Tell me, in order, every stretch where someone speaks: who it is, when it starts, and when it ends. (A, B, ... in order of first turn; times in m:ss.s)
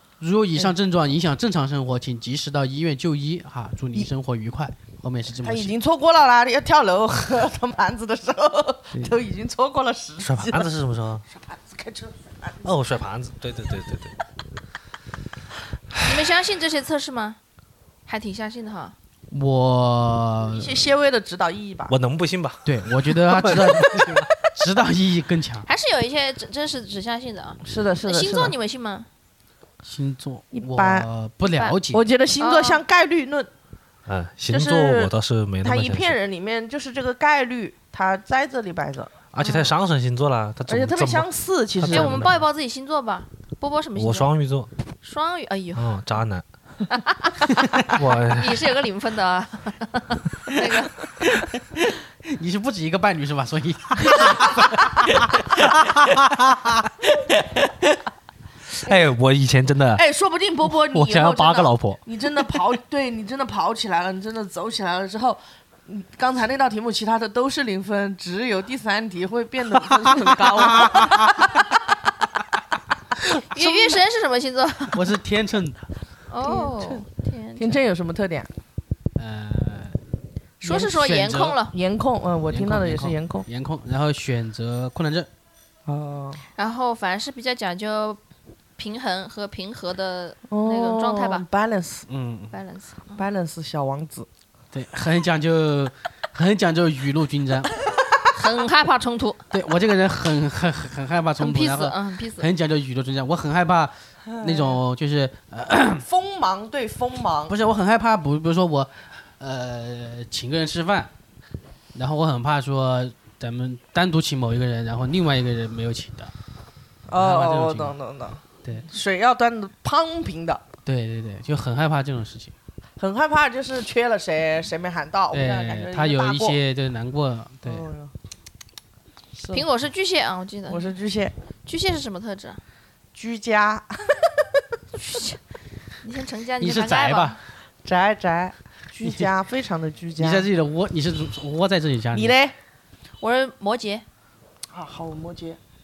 0:00.2-0:05.7 A
0:05.4-0:10.7 B
0:10.2-0:11.2 C
0:11.3-0:12.6 B
0:12.6-0:14.2 C
0:16.0-0:17.4 D
0:18.1-0:18.9 D
0:19.3-0:20.8 A
0:20.5-0:21.9 B
0:21.9-0:24.3 C
0:22.6-0:25.6 A
0:25.6-0:29.1 D
0:27.6-0:28.5 B
0:29.8-0:32.0 A
0:30.5-0:31.1 B
0:31.9-0:33.5 B
0:32.4-0:32.8 D
0:34.0-0:36.1 C
0:34.5-0:39.1 B
0:39.3-0:41.3 C
0:39.4-0:39.7 D
0:40.7-0:42.2 B
0:41.8-0:42.4 C
0:41.8-0:44.3 D
0:44.0-0:44.7 C
0:45.0-0:45.9 D
0:45.8-0:46.4 C
0:46.9-0:51.1 D
0:47.9-0:48.6 C
0:51.7-0:56.6 A
0:58.8-1:00.0 C
1:00.0-1:11.6 B
1:00.6-1:02.0 C
1:10.8-1:11.3 A
1:13.5-1:15.1 D
1:13.5-1:14.0 B
1:14.9-1:15.8 A
1:16.3-1:17.8 D
1:16.4-1:18.5 B
1:19.2-1:20.0 A
1:20.6-1:20.9 B
1:20.6-1:21.7 D
1:20.8-1:21.6 A
1:21.7-1:23.5 B
1:22.5-1:25.3 A
1:25.9-1:26.4 B
1:26.6-1:28.2 D
1:28.8-1:31.4 D
1:30.5-1:32.1 B
1:32.1-1:32.5 A
1:32.5-1:33.2 D
1:33.2-1:34.3 B
1:34.7-1:37.7 A
1:38.3-1:39.4 D
1:39.5-1:46.0 A
1:41.4-1:42.5 D
1:44.3-1:44.8 B
1:46.0-1:47.6 B
1:47.5-1:51.1 A
1:51.9-1:56.3 A
1:57.1-2:00.6 B
1:57.2-1:57.9 A
2:00.8-2:02.5 A
2:03.0-2:06.6 B
2:05.3-2:07.9 A
2:07.6-2:08.1 B
2:09.4-2:09.6 B
2:09.5-2:10.9 D
2:10.7-2:11.3 B
2:11.6-2:12.6 D
2:13.1-2:14.4 B
2:15.0-2:15.4 D
2:16.0-2:17.4 D
2:16.6-2:17.4 A
2:17.8-2:20.5 B
2:19.0-2:19.3 A
2:20.2-2:22.3 A
2:22.1-2:22.5 B
2:23.2-2:24.0 D
2:24.7-2:25.6 B